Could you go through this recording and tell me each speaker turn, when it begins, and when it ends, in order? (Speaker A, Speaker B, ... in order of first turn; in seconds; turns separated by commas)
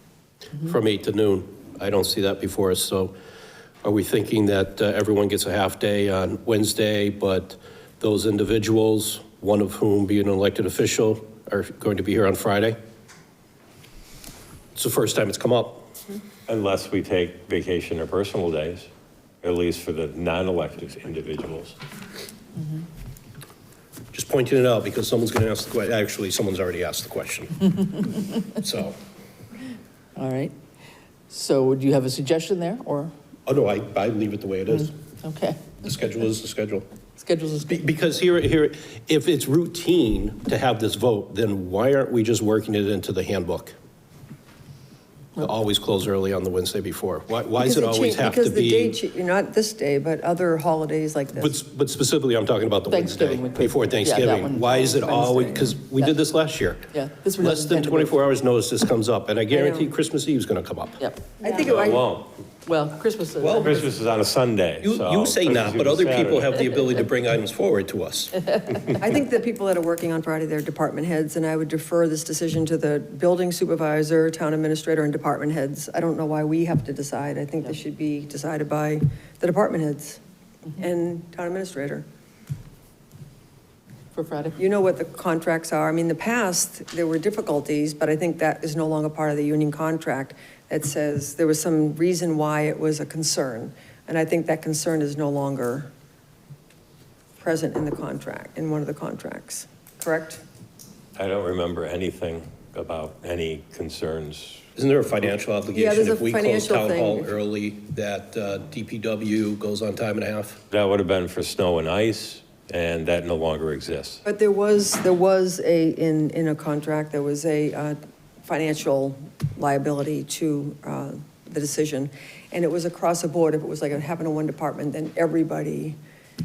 Speaker A: 0.6-3.1, Speaker A: 3.8-12.8, Speaker A: 14.8-15.9, Speaker B: 16.5-18.9, Speaker B: 19.4-21.8, Speaker A: 24.1-27.9, Speaker A: 28.4-29.0, Speaker C: 30.2-30.5, Speaker C: 31.3-33.1, Speaker A: 33.5-35.0, Speaker C: 35.2-35.7, Speaker A: 35.8-36.9, Speaker C: 37.2-37.9, Speaker A: 37.7-43.8, Speaker A: 45.4-49.0, Speaker D: 47.6-51.6, Speaker A: 51.3-61.0, Speaker C: 52.9-55.4, Speaker D: 54.7-55.6, Speaker C: 56.9-58.2, Speaker D: 59.5-59.9, Speaker C: 61.0-61.4, Speaker D: 61.4-62.1, Speaker B: 61.6-62.3, Speaker C: 62.6-63.9, Speaker A: 63.4-63.9, Speaker B: 63.6-66.6, Speaker A: 64.8-68.4, Speaker D: 69.0-80.2, Speaker D: 80.8-82.1, Speaker C: 84.1-84.6, Speaker D: 84.6-95.9, Speaker D: 97.4-100.4, Speaker B: 101.2-104.7, Speaker A: 104.8-110.6, Speaker D: 105.7-107.3, Speaker B: 110.7-114.2, Speaker D: 114.2-126.0